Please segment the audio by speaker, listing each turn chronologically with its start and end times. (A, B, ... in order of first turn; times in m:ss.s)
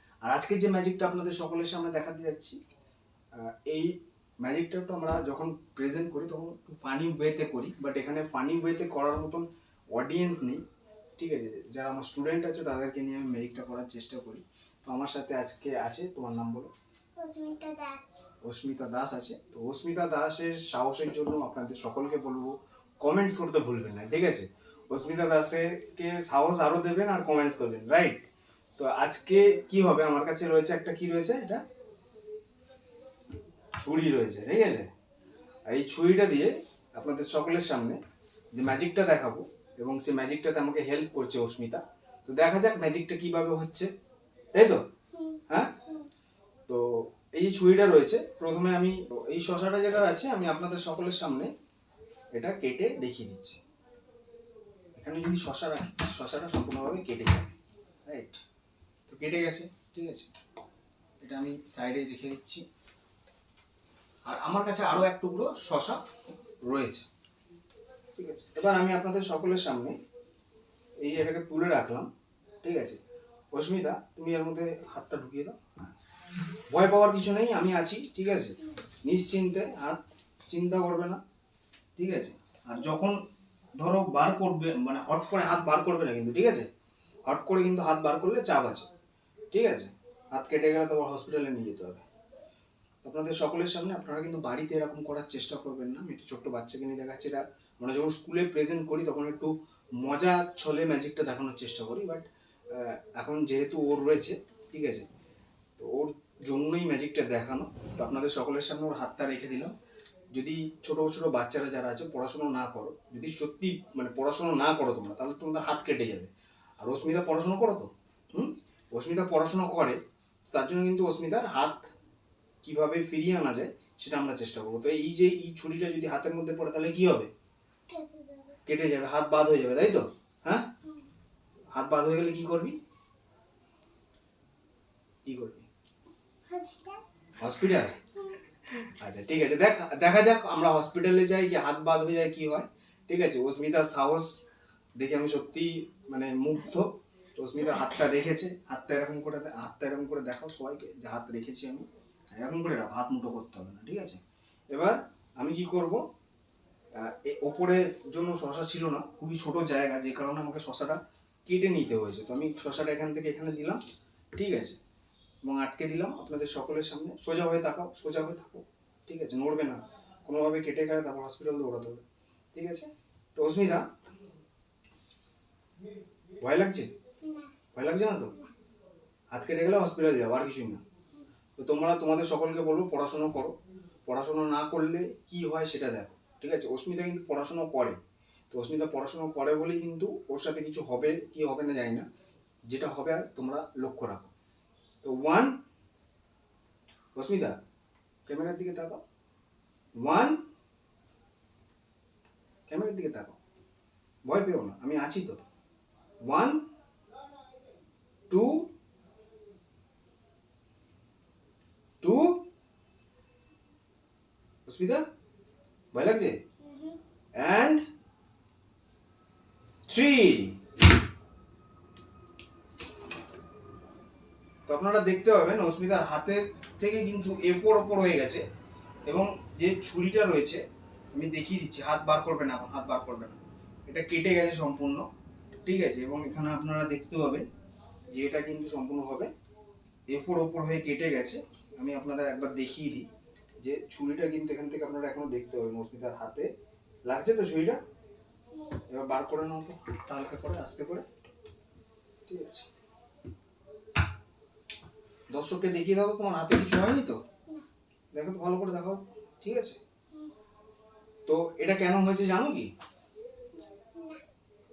0:00.2-0:02.6 A
0:03.4-0:10.6 A
0:11.2-0:16.7 A
0:17.2-0:18.3 B
0:18.4-0:28.2 A
0:28.8-0:31.6 A
0:33.8-0:34.9 A
0:35.7-0:38.0 A
0:38.5-0:43.9 A
0:44.5-0:44.8 A
0:45.1-0:46.1 B
0:45.5-0:45.8 A
0:46.7-0:51.5 A
0:52.3-0:53.6 A
0:55.0-0:57.5 A
0:58.0-0:58.4 A
0:59.1-1:00.3 A
1:01.2-1:02.6 A
1:04.3-1:06.0 A
1:06.6-1:07.1 A
1:08.2-1:10.0 A
1:11.0-1:12.1 A
1:12.6-1:13.0 A
1:13.5-1:15.9 A
1:16.7-1:21.2 A
1:22.0-1:23.2 A
1:23.8-1:26.7 A
1:27.3-1:28.9 A
1:29.5-1:32.0 A
1:33.0-1:45.1 A
1:45.8-1:49.7 A
1:50.3-2:01.9 A
2:02.6-2:07.3 A
2:07.9-2:08.6 B
2:08.7-2:10.7 A
2:10.8-2:11.1 B
2:11.7-2:12.8 A
2:15.2-2:15.7 A
2:16.5-2:17.0 B
2:17.4-2:18.0 A
2:18.7-2:24.4 A
2:25.0-2:36.1 A
2:37.0-2:43.8 A
2:44.4-2:44.8 A
2:45.4-2:52.0 A
2:52.5-2:53.8 A
2:56.4-2:56.9 A
2:57.2-2:57.5 B
2:57.7-2:58.4 A
2:59.3-3:00.8 A
3:01.6-3:03.6 A
3:04.1-3:08.0 A
3:08.5-3:12.1 A
3:12.7-3:14.3 A
3:15.0-3:15.6 A
3:17.2-3:17.6 A
3:18.3-3:19.0 A
3:20.0-3:20.4 A
3:22.7-3:23.4 A
3:24.2-3:25.4 A
3:26.2-3:26.6 A
3:28.3-3:28.7 A
3:32.0-3:32.5 A
3:34.7-3:35.0 A
3:35.9-3:36.4 A
3:36.6-3:37.0 B
3:37.4-3:37.9 A
3:39.9-3:40.6 A
3:44.7-3:48.4 A
3:49.1-3:55.0 A
3:55.6-3:57.5 A
3:58.1-3:59.3 A
4:00.1-4:03.1 A
4:03.6-4:06.5 A
4:07.1-4:07.8 A
4:08.6-4:08.8 B
4:08.9-4:11.1 A
4:12.3-4:12.7 A
4:15.3-4:17.2 A
4:18.1-4:19.8 A
4:21.3-4:22.7 A
4:23.8-4:24.2 B